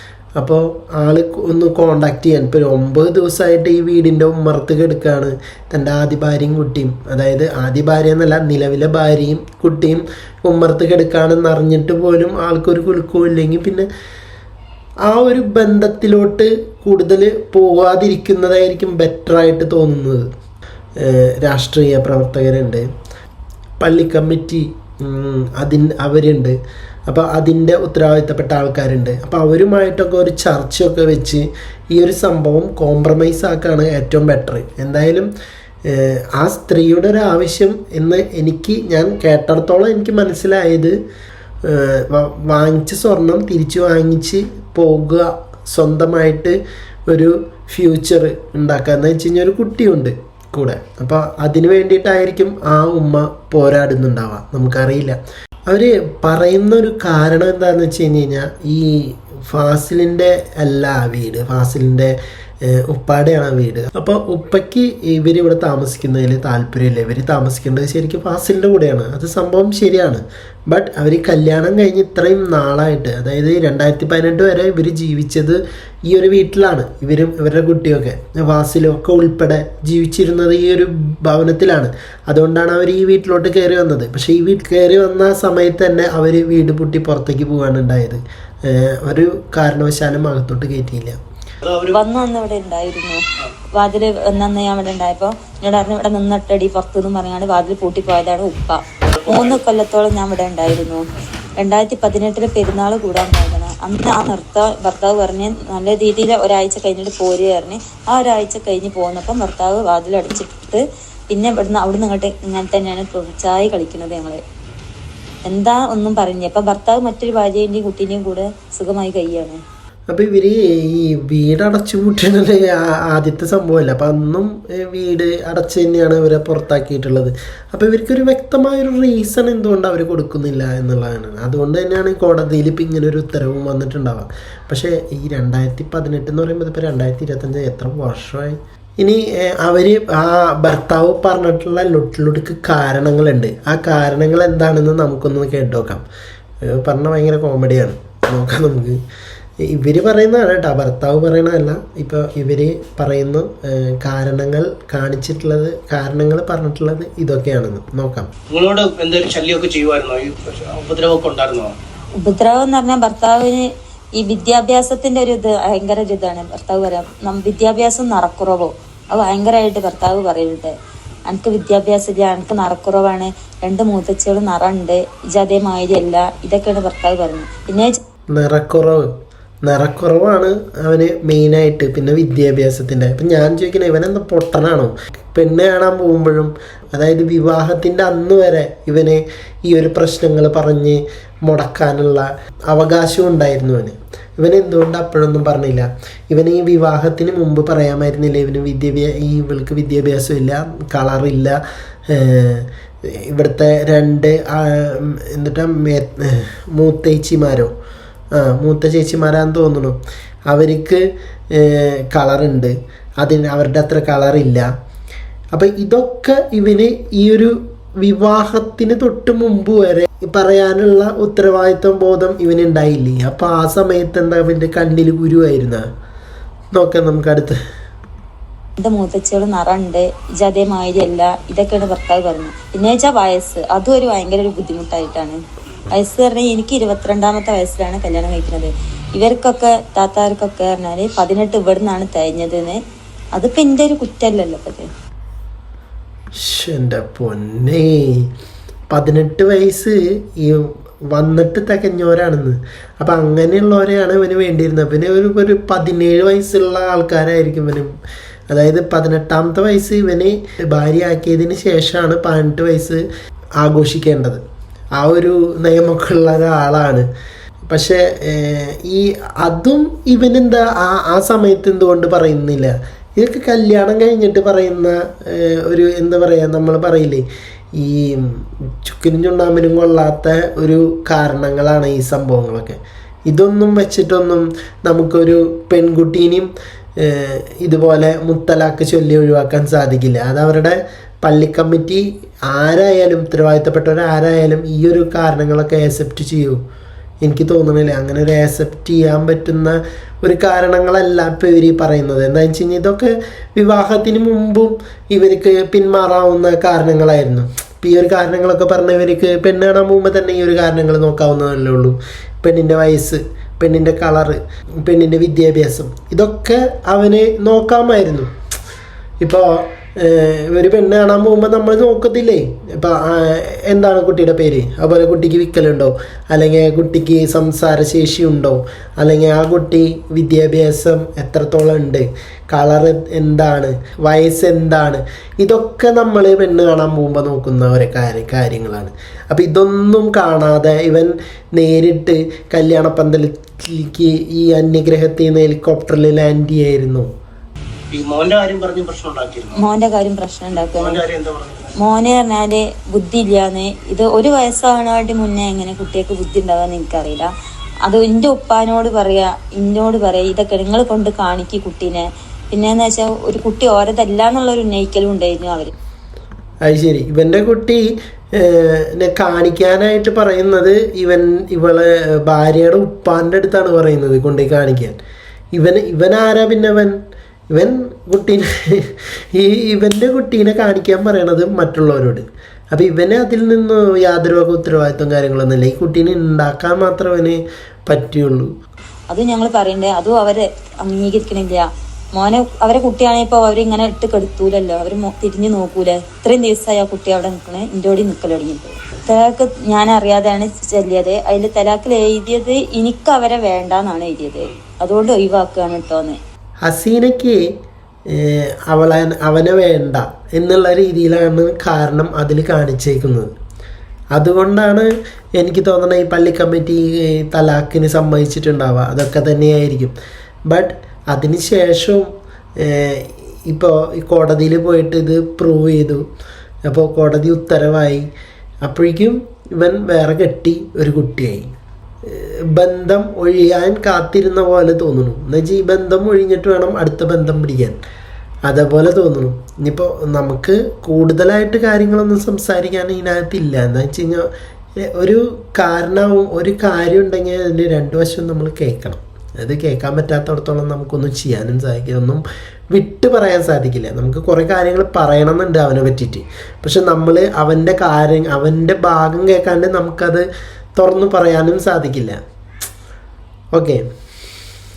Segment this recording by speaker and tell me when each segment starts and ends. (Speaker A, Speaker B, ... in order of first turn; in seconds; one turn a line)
Speaker A: 0.4-13.9
Speaker A: 15.1-20.3
Speaker A: 21.0-22.9
Speaker A: 23.8-35.3
Speaker A: 35.9-41.0
Speaker A: 41.6-91.2
Speaker B: 91.6-92.0
Speaker C: 91.9-93.2
Speaker C: 93.8-101.0
Speaker B: 99.2-99.6
Speaker C: 101.6-114.4
Speaker C: 115.5-119.6
Speaker A: 120.1-146.0
Speaker A: 146.6-149.0
Speaker A: 149.6-158.3
Speaker B: 158.5-161.8
Speaker C: 162.2-170.7
Speaker C: 171.3-178.0
Speaker A: 178.3-179.1
Speaker A: 179.7-207.7
Speaker A: 208.4-214.7
Speaker A: 215.5-225.9
Speaker A: 226.8-227.6
Speaker C: 228.8-235.4
Speaker C: 235.9-242.8
Speaker C: 243.3-244.9
Speaker A: 246.4-248.3
Speaker A: 248.9-257.9
Speaker A: 258.5-263.0
Speaker A: 263.6-264.4
Speaker A: 265.0-267.1
Speaker A: 267.7-277.2
Speaker A: 277.8-296.6
Speaker A: 297.2-318.3
Speaker A: 319.2-347.1
Speaker B: 347.9-349.6
Speaker C: 349.6-351.0
Speaker B: 350.7-351.7
Speaker C: 351.8-357.3
Speaker C: 357.9-365.7
Speaker A: 366.6-375.0
Speaker A: 375.5-377.0
Speaker A: 377.5-388.5
Speaker C: 389.1-406.2
Speaker A: 406.6-407.4
Speaker A: 408.1-413.3
Speaker A: 414.1-419.9
Speaker A: 420.5-426.0
Speaker A: 426.7-428.1
Speaker A: 428.6-431.5
Speaker A: 432.1-437.8
Speaker A: 438.5-444.3
Speaker A: 444.8-460.3
Speaker A: 460.8-462.2
Speaker A: 463.5-463.8